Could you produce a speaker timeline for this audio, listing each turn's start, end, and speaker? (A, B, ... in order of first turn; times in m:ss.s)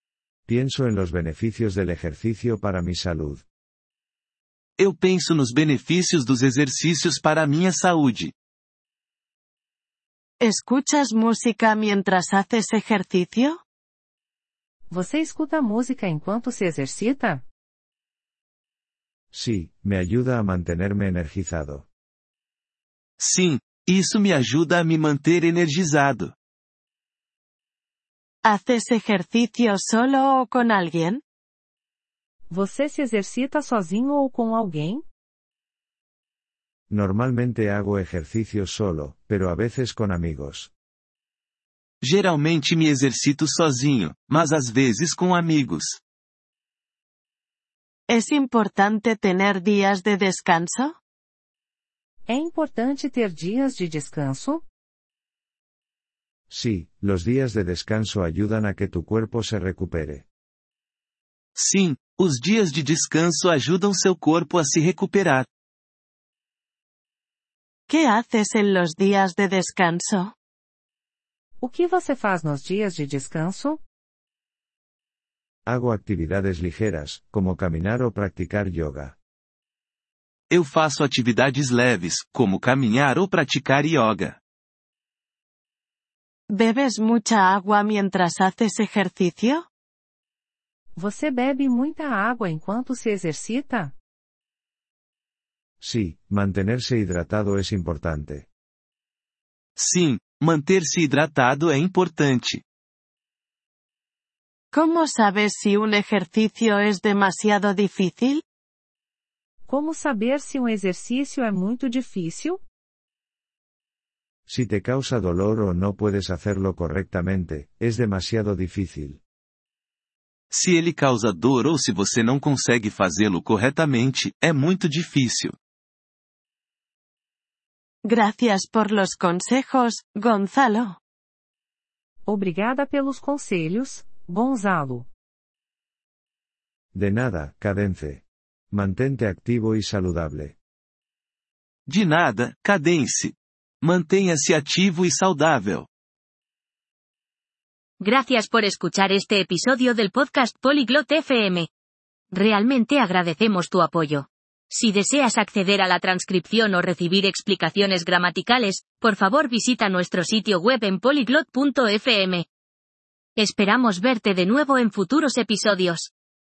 0:00.5-0:03.4 A
0:04.8-0:08.3 B
0:10.4-0:13.6 C
0:14.9-0:17.4 D
0:19.3-0:21.9 A
0:23.2-0:26.3 B
0:28.4-0:31.2 C
0:32.5-0:35.0 D
0:36.9-0:40.7 A
0:42.0-0:46.0 B
0:48.1-0:51.0 C
0:52.3-0:54.6 D
0:56.5-1:00.2 A
1:01.6-1:05.5 B
1:07.9-1:10.3 C
1:11.6-1:13.8 D
1:15.7-1:19.2 A
1:20.5-1:24.4 B
1:26.5-1:29.7 C
1:31.0-1:33.9 D
1:35.8-1:38.5 A
1:39.8-1:42.6 B
1:44.7-1:48.4 C
1:49.7-1:52.6 D
1:54.5-1:59.2 A
2:00.5-2:05.6 B
2:08.0-2:11.0 C
2:12.3-2:15.1 D
2:16.9-2:20.6 A
2:21.9-2:25.9 B
2:28.0-2:31.7 E
2:32.3-2:42.5 E
2:43.4-2:46.1 E